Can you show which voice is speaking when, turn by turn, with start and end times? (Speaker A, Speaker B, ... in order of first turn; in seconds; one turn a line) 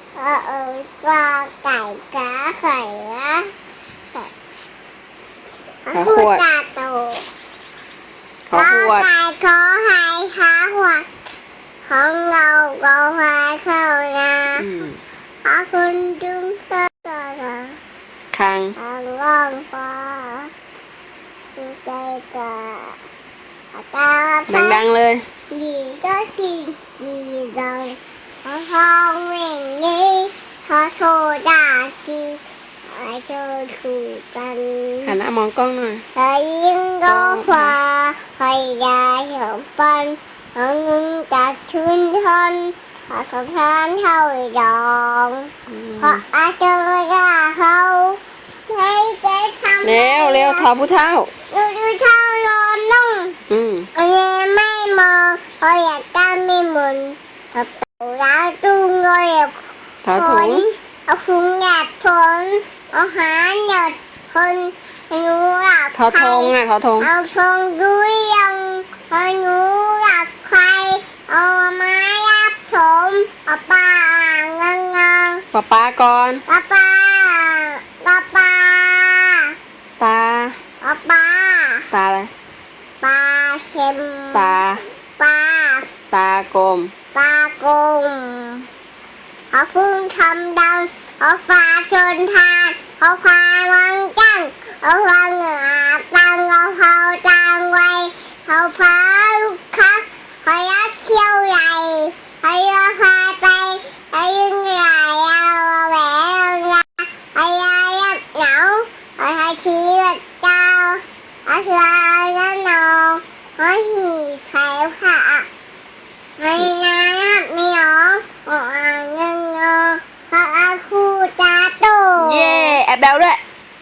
Speaker A: 0.2-3.5
Speaker A: 5.9-7.2
Speaker B: 5.9-6.4
Speaker B: 8.5-9.1
Speaker A: 8.5-11.1
Speaker A: 11.8-14.7
Speaker B: 14.6-15.0
Speaker A: 15.4-17.8
Speaker B: 18.3-18.8
Speaker A: 18.8-20.5
Speaker A: 21.6-23.0
Speaker A: 23.7-24.8
Speaker B: 24.5-25.2
Speaker A: 25.5-35.1
Speaker B: 35.0-36.0
Speaker A: 36.1-50.7
Speaker B: 37.0-37.8
Speaker B: 45.7-46.2
Speaker B: 49.8-51.3
Speaker A: 51.5-53.4
Speaker B: 53.5-53.9
Speaker A: 54.0-75.4
Speaker B: 60.0-60.6
Speaker B: 66.0-67.1
Speaker B: 75.5-76.4
Speaker A: 76.5-79.5
Speaker B: 80.0-80.6
Speaker A: 80.8-81.9
Speaker B: 81.9-82.3
Speaker A: 83.0-84.6
Speaker B: 84.3-84.8
Speaker A: 85.2-85.9
Speaker B: 86.1-86.9
Speaker A: 87.1-88.7
Speaker A: 89.5-115.5
Speaker A: 116.4-122.8
Speaker B: 122.2-123.4